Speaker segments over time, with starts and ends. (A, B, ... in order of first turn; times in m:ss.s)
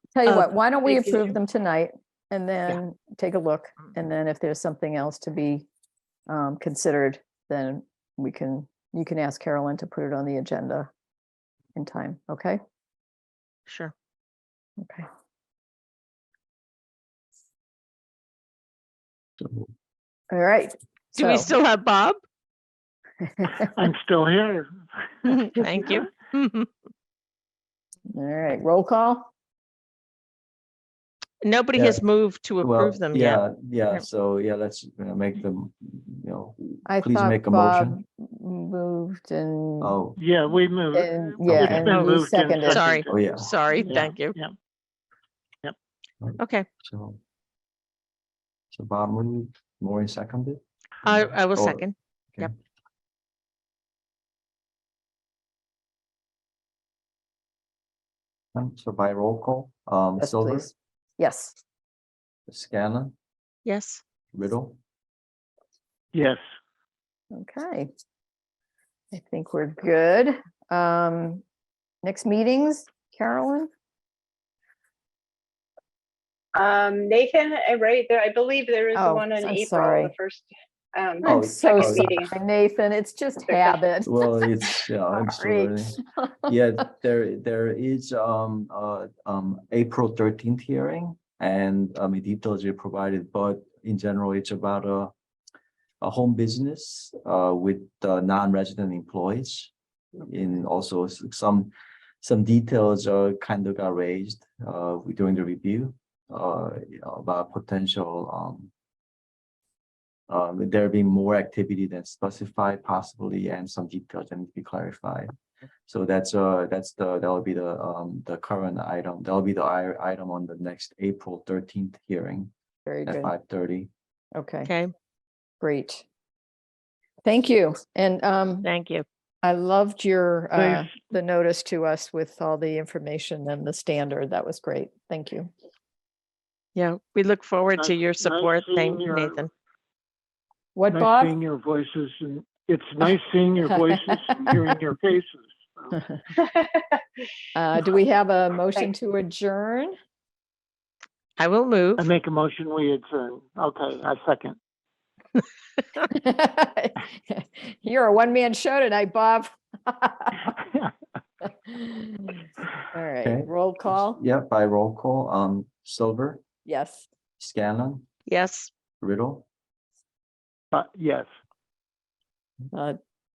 0:00.1-0:05.7 A
0:00.2-0:01.3 B
0:06.3-0:10.9 A
0:11.7-0:12.6 A
0:13.7-0:13.9 B
0:14.8-0:15.0 A
0:19.4-0:19.7 C
0:20.3-0:21.5 A
0:21.1-0:22.2 B
0:23.4-0:23.7 A
0:23.8-0:24.7 D
0:25.2-0:26.7 B
0:25.6-0:26.0 D
0:28.1-0:29.3 A
0:31.4-0:34.0 B
0:31.7-0:32.0 C
0:32.6-0:38.0 C
0:36.8-0:40.0 A
0:39.8-0:40.2 C
0:40.2-0:44.5 D
0:40.9-0:42.9 A
0:41.4-0:42.0 C
0:41.8-0:42.1 B
0:42.7-0:44.4 B
0:43.1-0:43.5 C
0:46.2-0:47.2 C
0:46.4-0:46.6 B
0:48.7-0:52.5 C
0:51.0-0:52.5 B
0:58.5-1:00.7 C
1:00.2-1:01.6 A
1:02.5-1:03.1 C
1:03.6-1:04.0 B
1:04.3-1:04.8 C
1:06.1-1:06.4 D
1:07.3-1:07.9 A
1:09.1-1:11.4 A
1:12.0-1:13.7 A
1:16.5-1:22.3 E
1:18.9-1:20.1 A
1:21.2-1:26.5 A
1:21.2-1:22.1 C
1:23.4-1:23.8 E
1:24.0-1:35.1 C
1:36.0-1:39.7 C
1:40.2-1:41.7 C
1:42.2-1:48.7 C
1:50.3-1:55.3 C
1:55.9-2:02.5 C
2:02.8-2:03.3 A
2:03.0-2:03.9 C
2:04.3-2:04.7 A
2:04.6-2:04.9 B
2:05.6-2:06.0 A
2:07.2-2:08.7 A
2:08.6-2:09.0 B
2:09.4-2:15.5 A
2:10.6-2:10.9 D
2:16.8-2:19.5 B
2:17.8-2:19.4 D
2:20.7-2:21.3 A
2:20.9-2:26.0 D
2:26.4-2:27.0 E
2:27.5-2:30.0 A
2:31.4-2:32.0 B
2:32.0-2:34.6 D
2:36.1-2:40.5 A
2:41.7-2:44.2 A
2:43.2-2:46.4 C
2:46.6-2:47.1 A
2:47.4-2:48.1 C
2:48.3-2:48.7 B
2:49.0-2:49.4 C
2:50.7-2:51.3 D
2:52.7-2:53.0 A